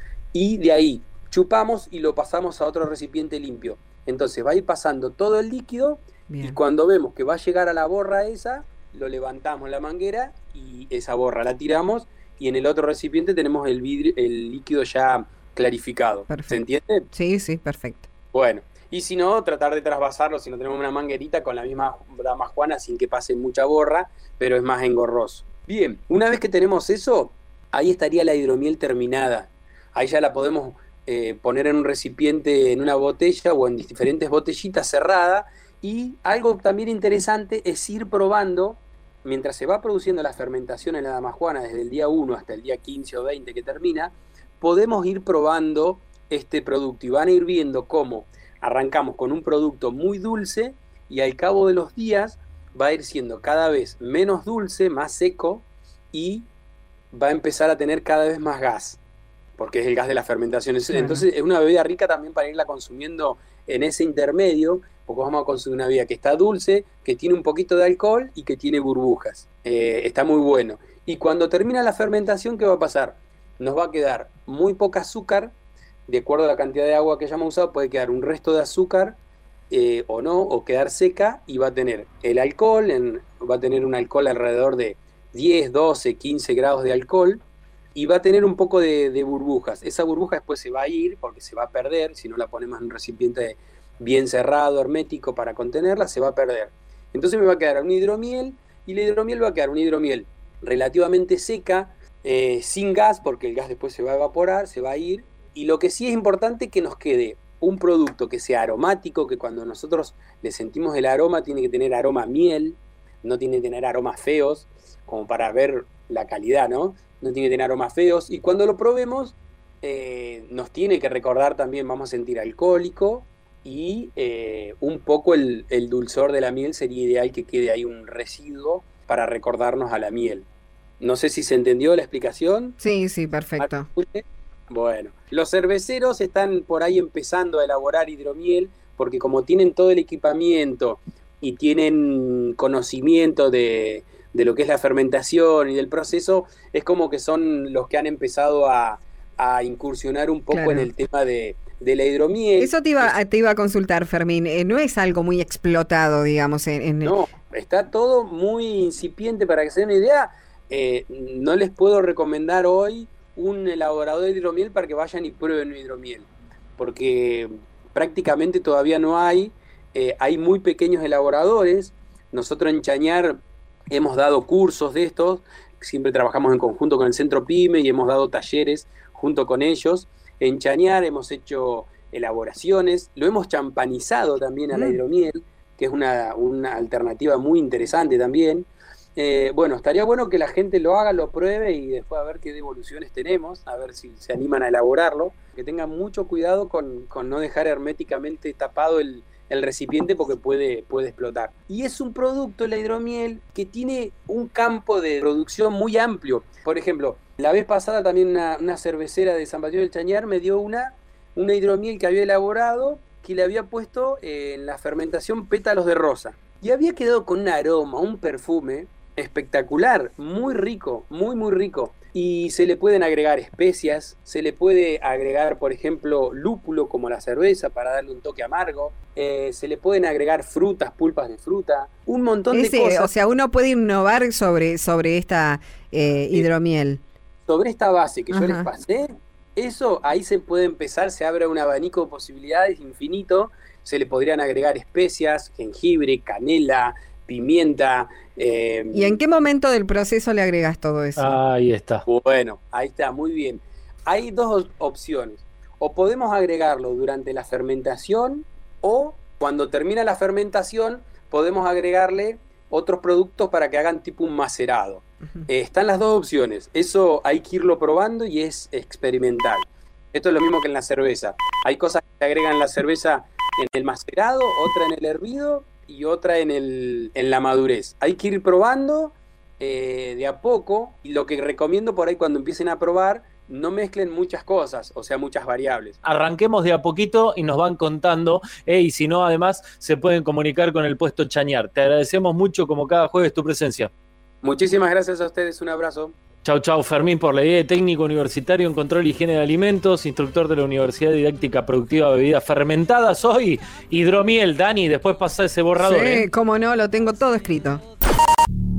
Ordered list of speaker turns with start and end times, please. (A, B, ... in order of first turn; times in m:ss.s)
0:00.3-0:17.1 A
0:06.3-0:06.6 B
0:16.3-0:18.1 B
0:18.3-0:56.5 A
0:57.1-0:59.0 A
0:59.6-1:15.5 A
1:00.9-1:01.2 B
1:16.1-1:19.2 A
1:19.7-1:27.4 A
1:27.9-2:10.5 A
2:11.0-2:12.8 A
2:12.8-2:13.9 B
2:13.6-2:33.1 A
2:30.5-2:30.9 B
2:32.6-2:37.2 B
2:37.0-3:53.1 A
3:04.7-3:05.0 B
3:52.5-3:57.0 B
3:57.4-4:09.2 A
3:58.3-3:58.7 B
4:08.9-4:11.4 B
4:11.2-4:12.0 C
4:12.0-4:46.0 A
4:46.0-4:53.9 C
4:54.4-4:56.2 A
4:56.4-5:06.2 C
5:05.8-5:07.8 B